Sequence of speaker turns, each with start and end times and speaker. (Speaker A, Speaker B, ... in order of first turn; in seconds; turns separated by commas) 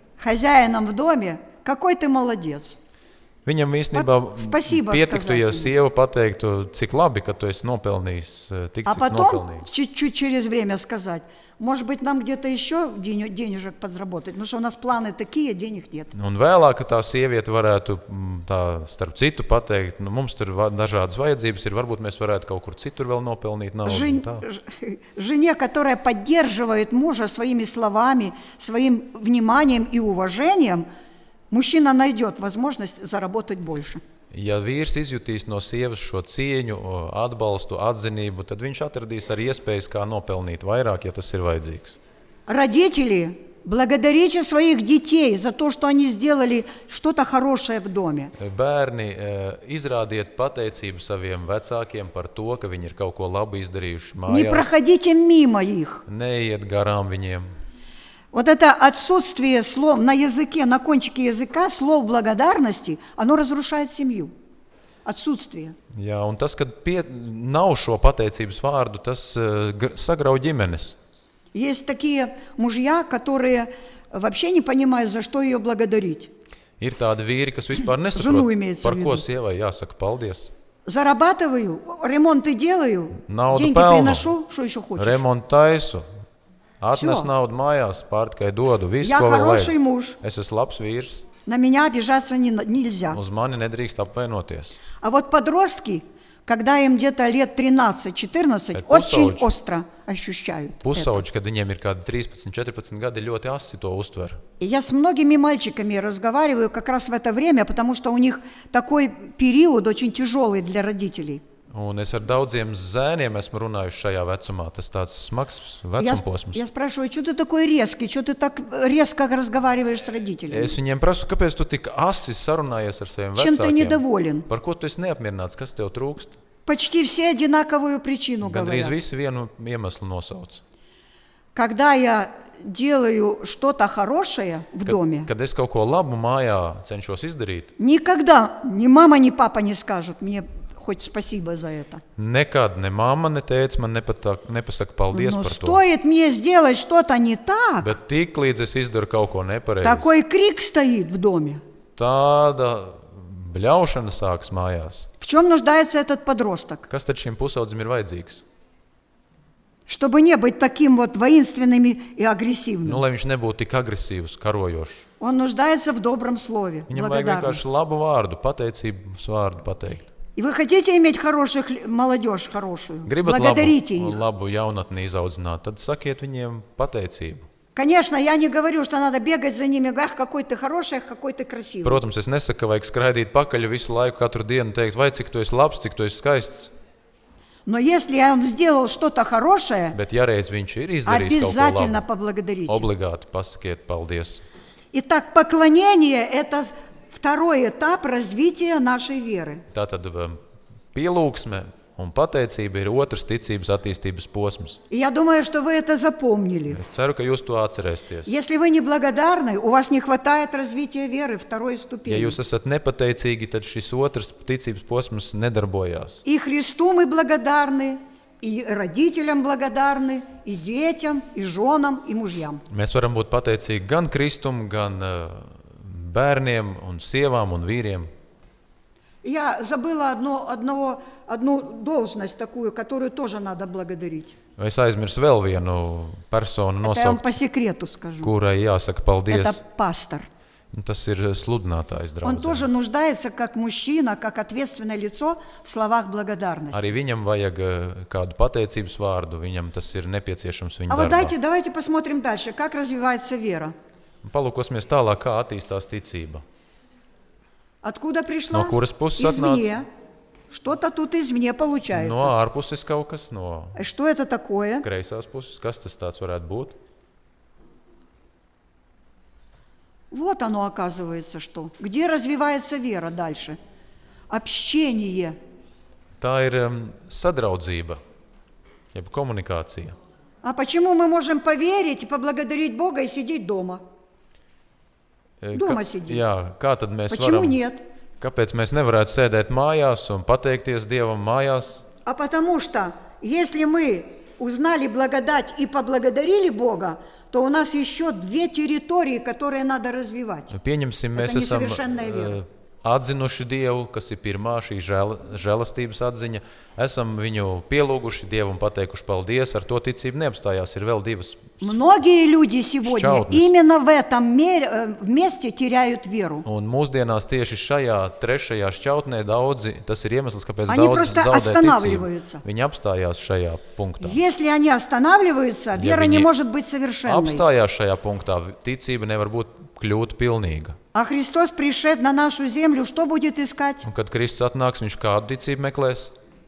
Speaker A: 0.2-2.8, Speaker B: 3.5-9.7, Speaker A: 4.0-5.7, Speaker A: 8.8-16.1, Speaker B: 16.1-24.4, Speaker A: 23.9-30.9, Speaker A: 31.5-34.0, Speaker B: 34.3-42.0, Speaker A: 42.5-48.3, Speaker B: 48.4-54.7, Speaker A: 54.3-56.0, Speaker B: 56.1-57.5, Speaker A: 58.3-64.3, Speaker A: 65.0-65.8, Speaker B: 65.9-71.0, Speaker A: 71.5-76.3, Speaker B: 76.8-80.5, Speaker A: 78.1-79.2, Speaker A: 80.9-85.2, Speaker B: 83.2-84.3, Speaker B: 85.0-86.1, Speaker B: 86.8-91.2, Speaker A: 87.0-87.3, Speaker A: 89.0-90.2, Speaker A: 91.5-93.2, Speaker B: 93.1-94.8, Speaker A: 95.0-101.2, Speaker B: 98.8-99.5, Speaker B: 100.8-104.4, Speaker A: 104.6-111.4, Speaker B: 111.7-116.6, Speaker A: 116.0-120.8, Speaker B: 120.5-126.4, Speaker A: 123.4-124.5, Speaker A: 126.7-129.0, Speaker B: 128.4-130.6, Speaker A: 131.6-135.3, Speaker B: 134.9-137.7, Speaker A: 137.8-142.0, Speaker B: 142.2-145.8, Speaker A: 145.1-147.9, Speaker B: 147.8-150.1, Speaker A: 149.8-151.6, Speaker B: 152.0-155.1, Speaker A: 155.2-156.9, Speaker B: 156.9-158.4, Speaker A: 159.9-163.0, Speaker B: 162.8-165.1, Speaker A: 165.2-167.7, Speaker B: 166.9-170.1, Speaker A: 170.4-174.2, Speaker B: 173.1-177.5, Speaker A: 177.8-182.0, Speaker B: 181.8-186.7, Speaker A: 187.7-190.0, Speaker B: 189.9-192.0, Speaker A: 191.1-192.9, Speaker B: 192.7-194.4, Speaker A: 194.9-199.6, Speaker B: 199.7-200.4, Speaker B: 200.9-204.8, Speaker A: 204.9-206.8, Speaker B: 206.7-208.3, Speaker A: 208.3-212.4, Speaker B: 212.1-216.2, Speaker A: 216.2-222.6, Speaker B: 222.7-228.1, Speaker A: 229.2-234.4, Speaker B: 234.6-237.2, Speaker A: 236.8-238.3, Speaker B: 238.2-239.6, Speaker A: 239.3-240.3, Speaker B: 240.7-242.7, Speaker A: 242.2-246.9, Speaker B: 246.7-251.3, Speaker A: 250.9-253.7, Speaker B: 254.2-256.4, Speaker A: 257.8-259.9, Speaker B: 258.5-259.8, Speaker A: 260.5-262.3, Speaker B: 261.9-263.8, Speaker A: 263.8-264.9, Speaker B: 264.8-266.8, Speaker A: 270.1-273.6, Speaker A: 274.3-275.4, Speaker B: 276.2-278.0, Speaker B: 278.9-280.0, Speaker A: 280.4-283.8, Speaker B: 285.4-287.6, Speaker A: 285.5-286.2, Speaker A: 287.1-287.8, Speaker B: 288.2-291.8, Speaker A: 292.1-300.5, Speaker B: 300.5-311.8, Speaker A: 301.2-302.4, Speaker A: 311.6-316.4, Speaker B: 312.8-313.5, Speaker B: 316.4-324.2, Speaker A: 320.7-322.4, Speaker A: 324.0-327.4, Speaker B: 325.8-326.3, Speaker B: 327.1-330.8, Speaker A: 330.9-333.9, Speaker B: 333.8-336.1